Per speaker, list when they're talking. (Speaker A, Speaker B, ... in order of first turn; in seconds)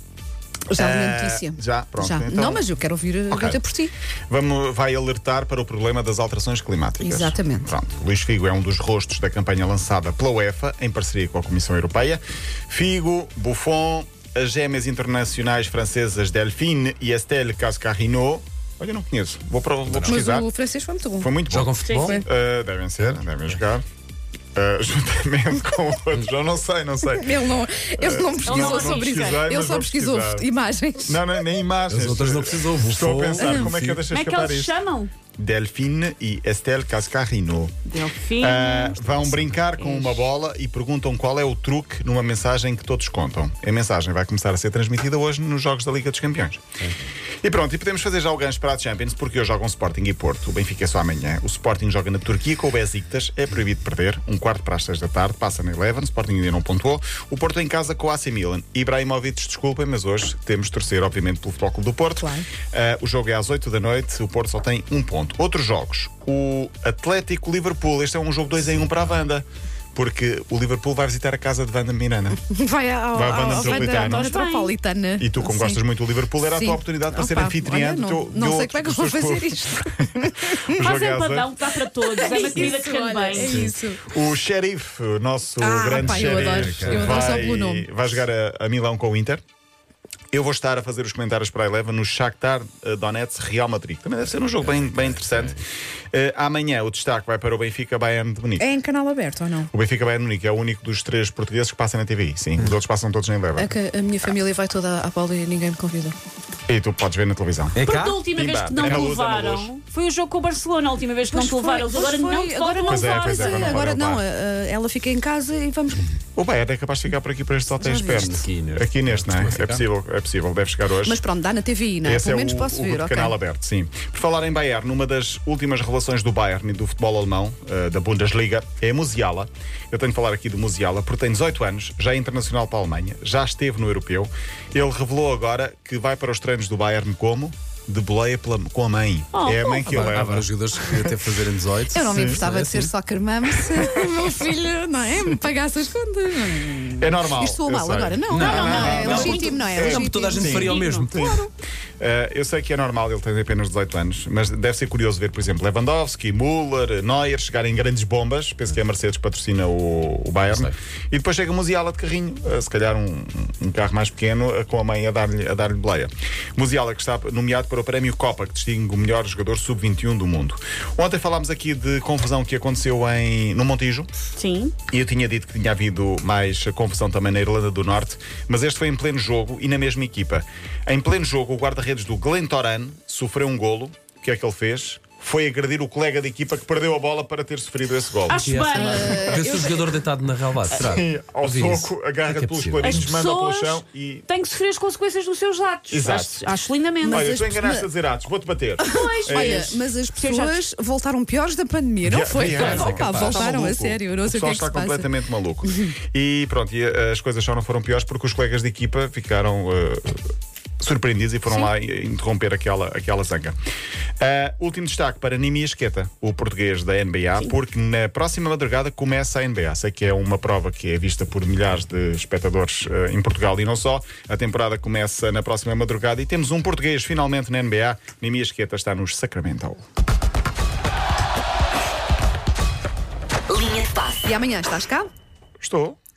Speaker A: 0.7-3.9, 7.0-7.7, 20.1-21.3, 27.1-31.4, 33.4-33.7, 62.2-62.5, 72.4-75.8, 76.5-80.8, 82.2-84.1, 85.6-87.9, 98.6-99.7, 103.6-106.2, 111.3-116.1, 117.8-118.4, 121.0-123.3, 141.9-151.5, 188.7-190.0, 197.0-197.9, 198.8-205.1, 205.7-205.9, 234.1-235.1
Speaker B: 0.7-2.7, 3.3-3.6, 4.3-20.5, 21.2-23.9, 24.6-30.5, 31.1-34.7, 35.4-37.8, 38.4-46.6, 47.4-72.4, 73.1-74.3, 75.2-81.5, 82.3-82.8, 83.4-89.4, 90.3-98.7, 99.7-103.7, 106.7-107.8, 108.3-109.7, 112.9-114.2, 116.4-121.2, 122.0-140.5, 142.1-142.4, 147.0-151.5, 152.0-174.1, 174.9-188.4, 190.7-194.3, 195.9-196.4, 197.0-199.8, 202.0-210.2, 210.8-213.6, 214.2-229.8, 235.6-236.0
Speaker C: 19.9-20.2, 21.5-22.2, 31.9-34.0, 38.9-39.6, 85.9-87.5, 94.4-95.6, 107.8-108.2, 118.1-119.8, 139.9-142.9, 148.3-151.2, 160.5-160.8, 188.3-193.1, 202.5-203.3
Speaker D: 21.8-22.2, 28.4-29.2, 34.1-35.1, 37.9-39.0, 39.8-40.2, 73.5-74.8, 80.8-83.7, 107.8-113.8, 139.3-140.0, 148.4-149.6, 174.4-174.8, 188.3-189.5, 192.8-197.3, 198.9-200.6, 202.6-203.3